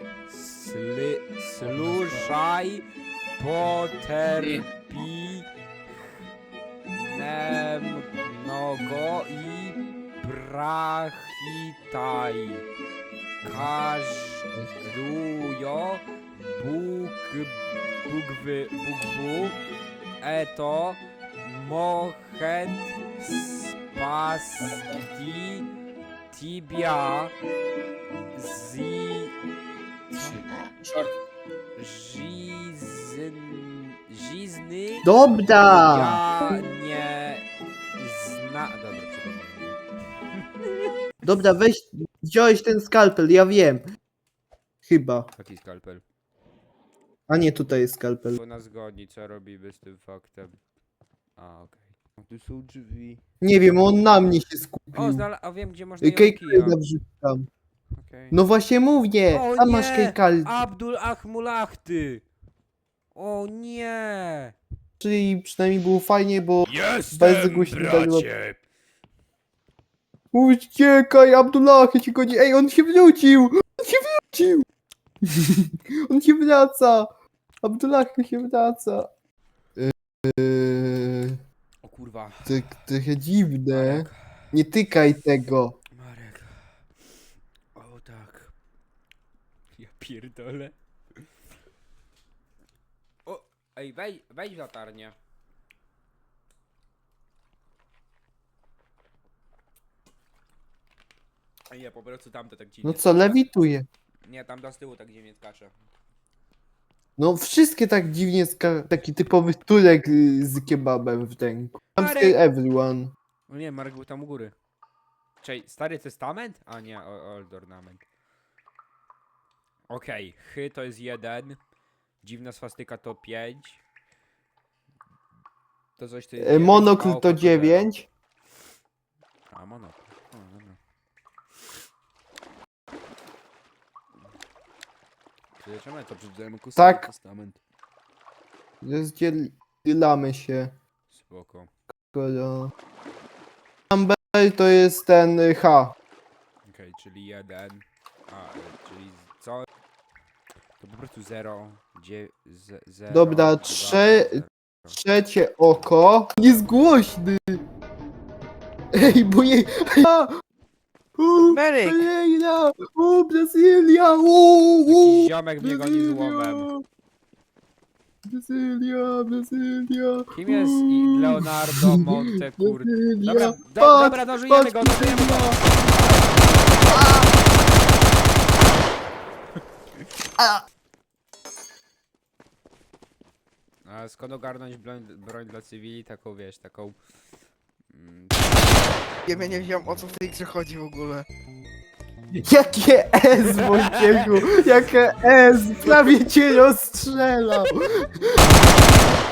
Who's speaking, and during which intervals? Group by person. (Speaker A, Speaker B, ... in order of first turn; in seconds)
Speaker A: 0.3-2.8, 3.4-5.5, 7.0-12.7, 13.4-19.6, 20.2-25.7, 26.3-27.3, 28.3-29.4, 30.1-30.5, 31.8-35.1, 35.7-37.5, 38.0-39.8, 40.6-40.9, 45.4-46.0, 48.3-50.6, 51.4-53.2, 54.9-56.8, 58.0-58.4, 59.3-62.2, 63.1-64.6, 66.7-68.6, 81.8-82.8, 83.7-84.5, 85.9-86.7, 87.8-88.5, 89.8-90.7, 93.2-95.2, 101.7-103.5, 104.2-105.7, 112.0-112.4, 113.5-114.5, 115.4-118.0, 119.9-121.6, 122.2-123.8, 126.0-127.9, 129.5-130.8, 135.6-137.6, 141.1-141.7, 146.7-149.7, 150.8-155.0, 164.9-166.7, 170.3-175.8, 183.8-187.0, 187.9-188.8, 193.6-194.7
Speaker B: 35.0-36.2, 41.2-43.8, 44.9-45.3, 47.3-48.4, 53.4-55.3, 56.0-57.5, 58.3-60.5, 65.0-68.3, 70.3-74.7, 75.2-77.1, 77.6-79.1, 79.8-81.4, 82.5-85.8, 102.8-103.9, 107.2-113.1, 126.4-128.1, 136.8-137.1, 138.8-140.7, 142.1-142.7, 143.9-145.9, 153.1-157.6, 158.9-160.3, 161.2-166.8, 168.3-175.8, 176.8-177.3, 180.4-180.6, 192.3-198.6
Speaker C: 161.5-162.1, 189.3-191.3